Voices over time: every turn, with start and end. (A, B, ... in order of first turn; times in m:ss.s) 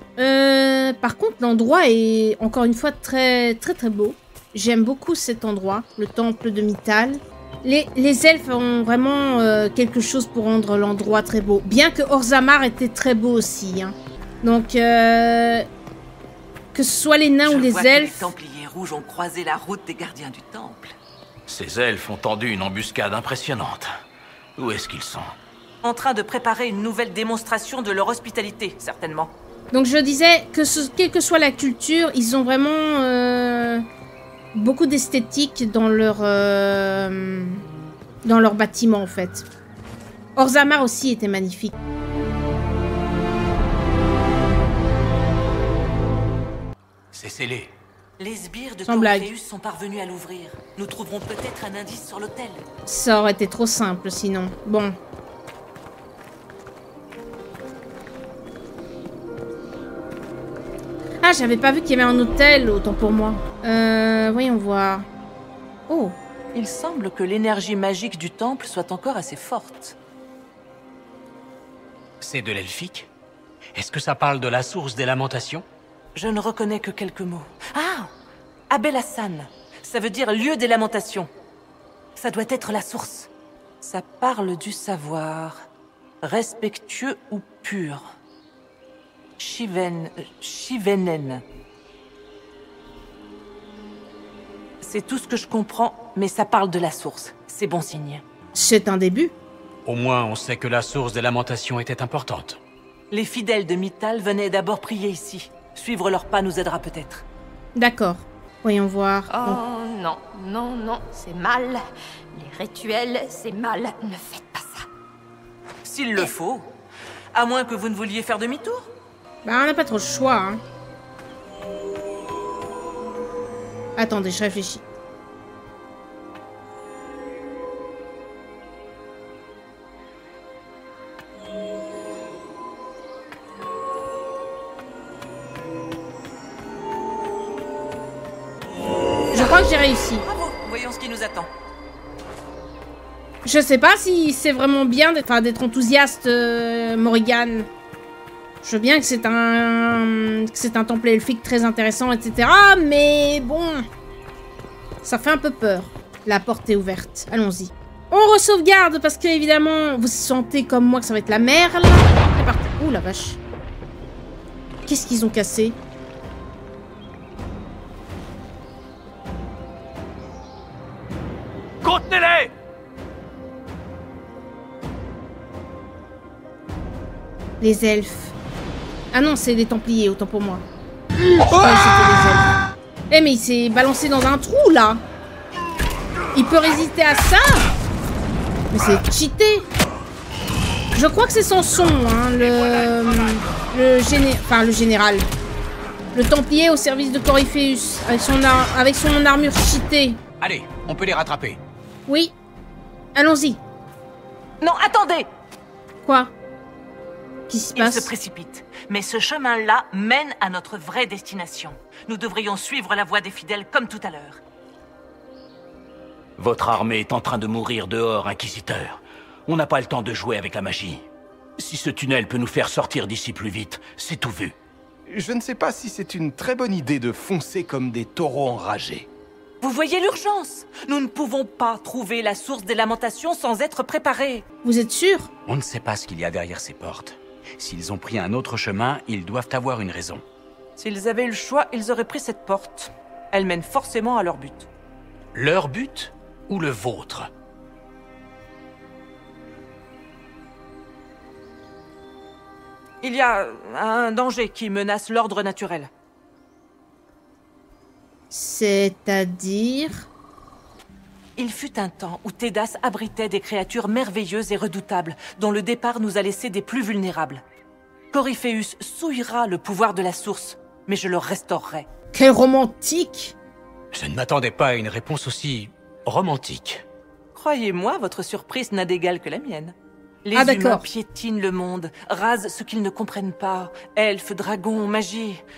0:00.2-0:15.6 A
0:16.7-0:18.3 A
0:17.4-0:20.9 B
0:21.5-0:23.9 C
0:24.6-0:25.4 C
0:25.8-0:29.3 B
0:29.7-0:33.8 A
0:34.5-0:37.6 A
0:38.2-0:39.4 A
0:40.4-0:41.8 A
0:47.1-0:47.7 D
0:48.2-0:52.6 B
0:48.8-0:49.3 A
0:52.8-0:55.0 A
1:01.2-1:05.0 A
1:05.9-1:06.2 A
1:06.5-1:10.0 B
1:12.2-1:13.1 D
1:13.7-1:15.6 D
1:16.1-1:18.1 B
1:18.7-1:21.3 B
1:22.2-1:23.3 B
1:23.8-1:25.6 B
1:26.2-1:28.1 B
1:29.4-1:31.4 B
1:34.8-1:38.2 B
1:38.5-1:39.3 A
1:39.8-1:42.6 D
1:43.1-1:47.2 B
1:47.8-1:49.6 A
1:49.3-1:54.9 E
1:55.8-1:56.7 B
1:57.3-1:58.9 B
1:59.4-2:00.6 A
2:04.0-2:04.8 A
2:19.3-2:19.7 B
2:19.3-2:20.2 A
2:20.2-2:21.5 B
2:23.4-2:27.7 A
2:28.6-2:33.9 A
2:35.0-2:43.4 A
2:44.9-2:45.8 A
2:57.6-2:58.3 A
2:59.1-3:00.6 A
3:01.4-3:02.6 A
3:03.1-3:05.0 A
3:06.3-3:07.7 A
3:08.7-3:09.7 A
3:10.9-3:15.3 A
3:16.1-3:20.2 A
3:20.4-3:21.6 D
3:22.1-3:22.3 A
3:23.1-3:23.6 A
3:24.6-3:25.3 B
3:26.0-3:26.3 A
3:27.5-3:28.1 A
3:27.8-3:34.4 B
3:36.4-3:41.1 C
3:41.6-3:44.5 C
3:45.1-3:49.1 F
3:49.6-3:54.4 B
3:54.6-3:55.3 A
3:55.4-4:00.2 D
4:00.8-4:04.7 B
4:05.3-4:07.3 D
4:13.0-4:15.9 B
4:18.3-4:20.1 A
4:21.4-4:27.4 B
4:28.1-4:31.9 B
4:32.1-4:33.3 A
4:33.9-4:36.8 D
4:37.3-4:39.7 B
4:40.2-4:45.4 B
4:40.3-4:40.8 A